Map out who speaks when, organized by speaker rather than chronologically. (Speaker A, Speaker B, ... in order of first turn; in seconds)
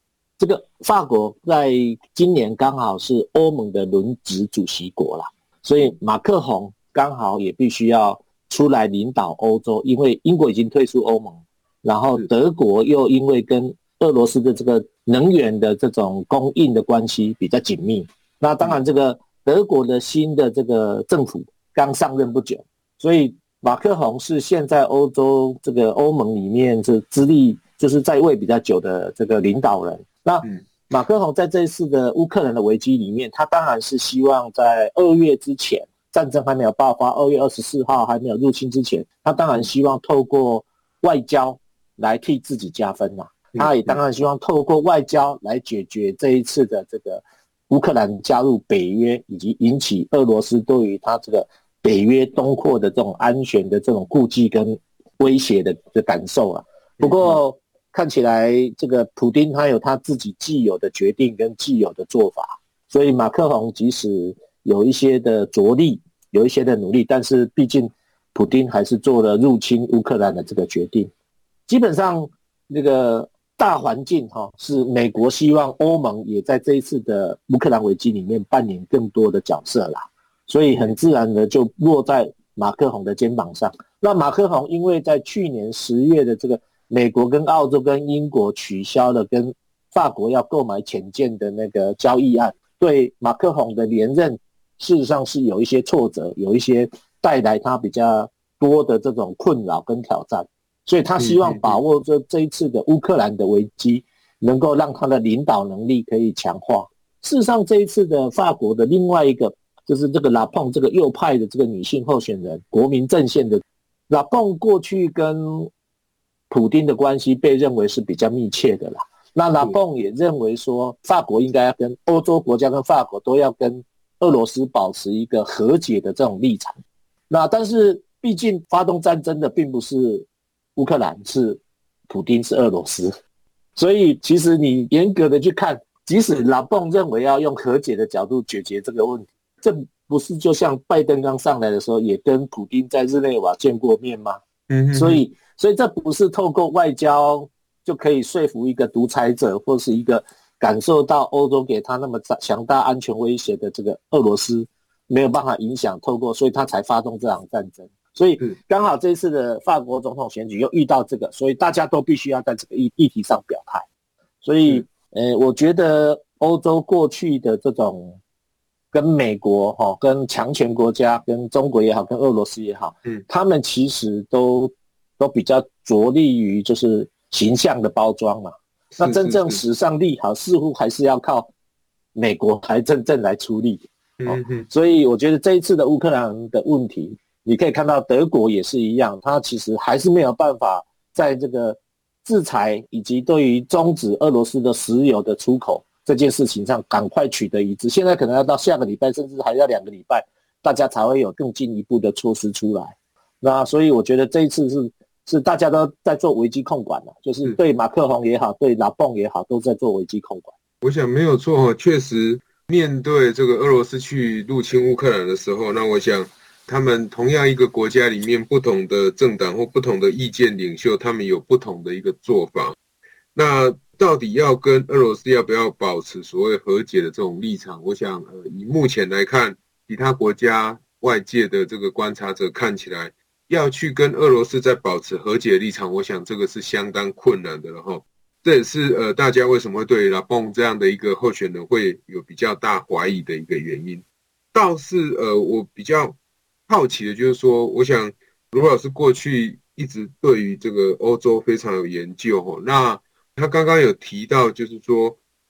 Speaker A: 0.4-71.1, 71.7-115.7, 116.5-126.8, 127.3-133.1, 133.8-144.4, 144.9-163.8, 164.4-168.2, 168.9-181.5, 182.1-210.5
Speaker B: 43.5-44.0, 57.0-57.4, 101.2-101.8, 144.7-145.2, 179.0-179.6, 184.2-184.7, 210.8-222.8, 223.3-246.2, 246.7-255.2